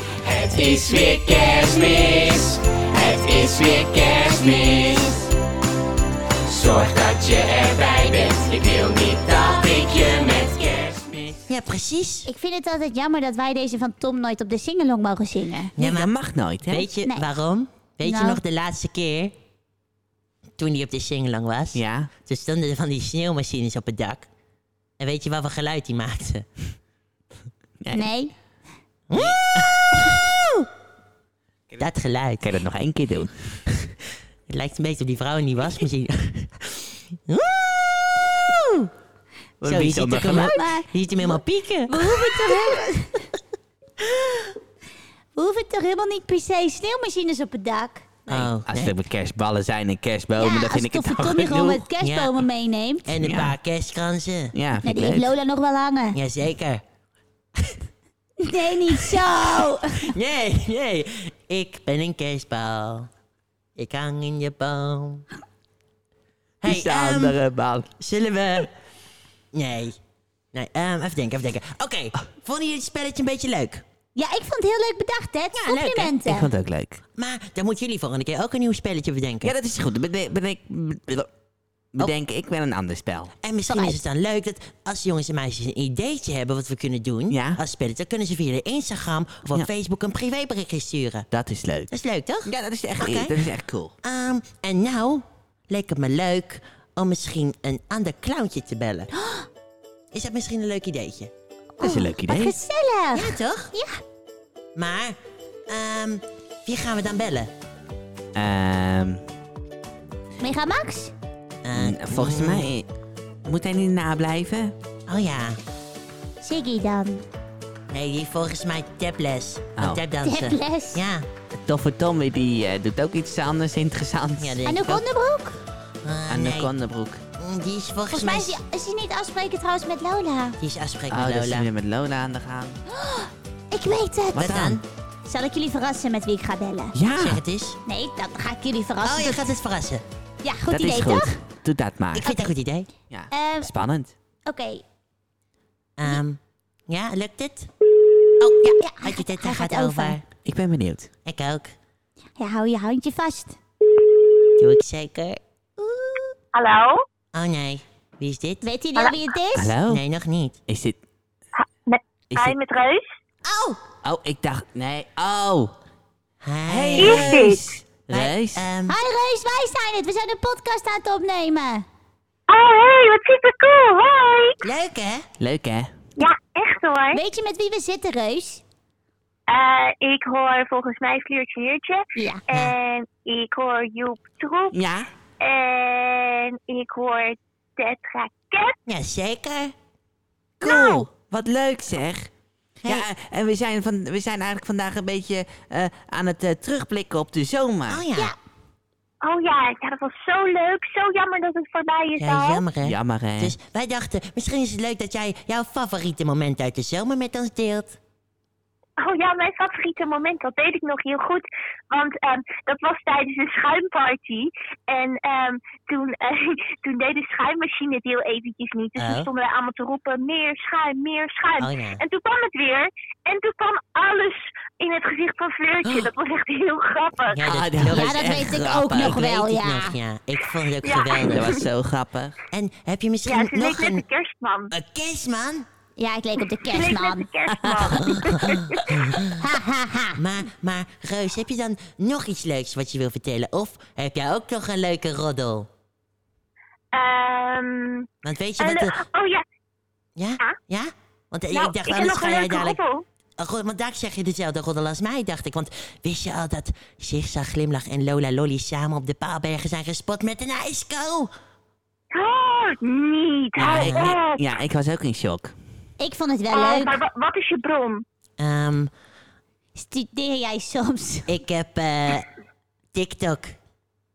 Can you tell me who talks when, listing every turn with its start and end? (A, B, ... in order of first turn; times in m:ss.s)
0:00.2-0:05.2 A
0:06.5-0:11.3 A
0:11.5-0:12.3 B
0:12.3-0:15.7 C
0:15.8-0:16.1 B
0:15.8-0:16.9 D
0:16.6-0:19.3 B
0:18.0-0:18.4 C
0:20.6-0:24.3 B
0:21.8-0:22.1 D
0:25.0-0:26.5 B
0:27.8-0:28.1 D
0:27.9-0:28.3 C
0:29.1-0:30.7 B
0:31.8-0:32.4 B
0:32.4-0:33.7 D
0:34.5-0:38.9 B
0:39.6-0:40.5 D
0:39.6-0:42.8 B
0:40.3-0:40.9 C
0:41.9-0:43.3 C
0:44.0-0:44.5 B
0:45.4-0:48.1 C
0:48.3-0:48.9 B
0:48.3-0:51.8 D
0:50.4-0:53.1 C
0:52.0-0:52.4 B
0:53.1-0:54.6 B
0:53.2-0:53.6 D
0:54.5-0:55.3 D
0:54.8-0:56.2 C
0:56.1-0:56.8 B
0:58.4-1:00.1 C
0:59.3-1:03.1 B
1:03.8-1:05.3 B
1:06.6-1:07.4 B
1:06.6-1:07.9 D
1:08.0-1:08.7 B
1:09.5-1:10.0 B
1:10.5-1:13.8 B
1:14.2-1:16.5 C
1:15.6-1:16.1 B
1:16.2-1:17.0 D
1:17.2-1:19.6 B
1:19.4-1:21.3 D
1:22.0-1:23.3 D
1:23.4-1:31.3 B
1:23.7-1:24.0 C
1:27.3-1:27.6 D
1:31.3-1:31.9 D
1:31.9-1:33.4 B
1:32.4-1:33.9 D
1:34.0-1:39.1 B
1:39.2-1:39.4 C
1:40.1-1:41.3 B
1:41.8-1:44.0 C
1:41.8-1:42.6 D
1:43.1-1:43.7 B
1:44.8-1:45.2 B
1:45.7-1:47.5 B
1:48.4-1:49.2 D
1:50.4-1:51.1 C
1:51.6-1:52.7 B
1:51.8-1:52.9 D
1:53.5-1:54.7 D
1:55.1-1:55.6 B
1:56.4-1:57.2 C
1:57.9-2:01.3 B
2:00.2-2:01.0 C
2:01.6-2:04.6 D
2:04.4-2:05.0 B
2:04.7-2:05.6 C
2:06.0-2:06.7 B
2:06.3-2:07.2 D
2:07.4-2:08.6 B
2:08.1-2:10.6 C
2:10.6-2:11.7 B
2:11.1-2:12.8 D
2:12.9-2:14.6 C
2:14.4-2:14.8 B
2:14.4-2:14.8 D
2:15.3-2:17.0 C
2:17.0-2:17.4 D
2:17.2-2:17.8 B
2:17.9-2:19.4 C
2:19.0-2:20.0 B
2:20.4-2:21.3 C
2:20.7-2:22.3 D
2:22.1-2:22.9 B
2:23.1-2:24.1 D
2:23.3-2:23.7 C
2:24.5-2:24.8 C
2:26.0-2:27.7 B
2:28.4-2:30.2 B
2:28.8-2:30.2 C
2:30.4-2:31.1 D
2:31.2-2:31.8 B
2:32.4-2:33.6 C
2:34.6-2:35.4 B
2:35.8-2:36.3 C
2:36.5-2:37.0 E
2:37.3-2:38.6 B
2:38.6-2:39.7 C
2:39.6-2:40.0 D
2:39.9-2:40.6 B
2:40.7-2:41.0 D
2:41.6-2:43.1 E
2:43.4-2:43.8 B
2:44.0-2:45.7 D
2:46.4-2:47.5 B
2:46.7-2:48.7 D
2:47.0-2:47.7 E
2:48.1-2:49.0 B
2:48.9-2:51.8 C
2:52.5-2:54.6 E
2:54.6-2:55.3 B
2:55.4-2:55.9 D
2:56.2-2:57.2 E
2:57.1-2:58.6 C
2:59.5-3:04.8 E
3:02.2-3:02.4 C
3:02.5-3:02.8 B
3:04.7-3:05.1 D
3:05.4-3:08.8 E
3:08.9-3:09.7 B
3:10.6-3:12.3 D
3:10.6-3:11.0 C
3:12.8-3:18.0 D
3:17.9-3:18.4 B
3:19.2-3:22.6 E
3:22.2-3:28.0 B
3:22.8-3:23.6 D
3:29.0-3:47.4 E
3:39.0-3:39.3 B
3:41.6-3:42.0 B
3:45.8-3:46.1 B
3:47.3-3:51.5 B
3:47.5-3:49.2 D
3:47.9-3:50.0 C
3:50.8-3:51.6 E
3:51.3-3:52.4 D
3:52.5-3:54.0 B
3:53.3-3:54.7 E
3:54.7-3:55.7 B
3:56.0-3:57.3 C
3:56.7-3:59.0 E
3:57.5-3:58.4 D
3:58.0-3:59.4 B
3:59.4-4:00.2 C
4:00.2-4:05.7 B
4:06.9-4:08.1 E
4:08.2-4:09.0 B
4:08.6-4:09.4 E
4:10.2-4:12.8 B
4:11.5-4:13.0 E
4:13.4-4:21.3 B
4:22.1-4:24.4 E
4:23.6-4:25.5 D
4:23.6-4:24.2 B
4:26.0-4:27.0 C
4:26.5-4:28.0 E
4:28.4-4:28.9 B
4:29.8-4:31.3 C
4:31.3-4:32.3 B
4:32.9-4:33.6 B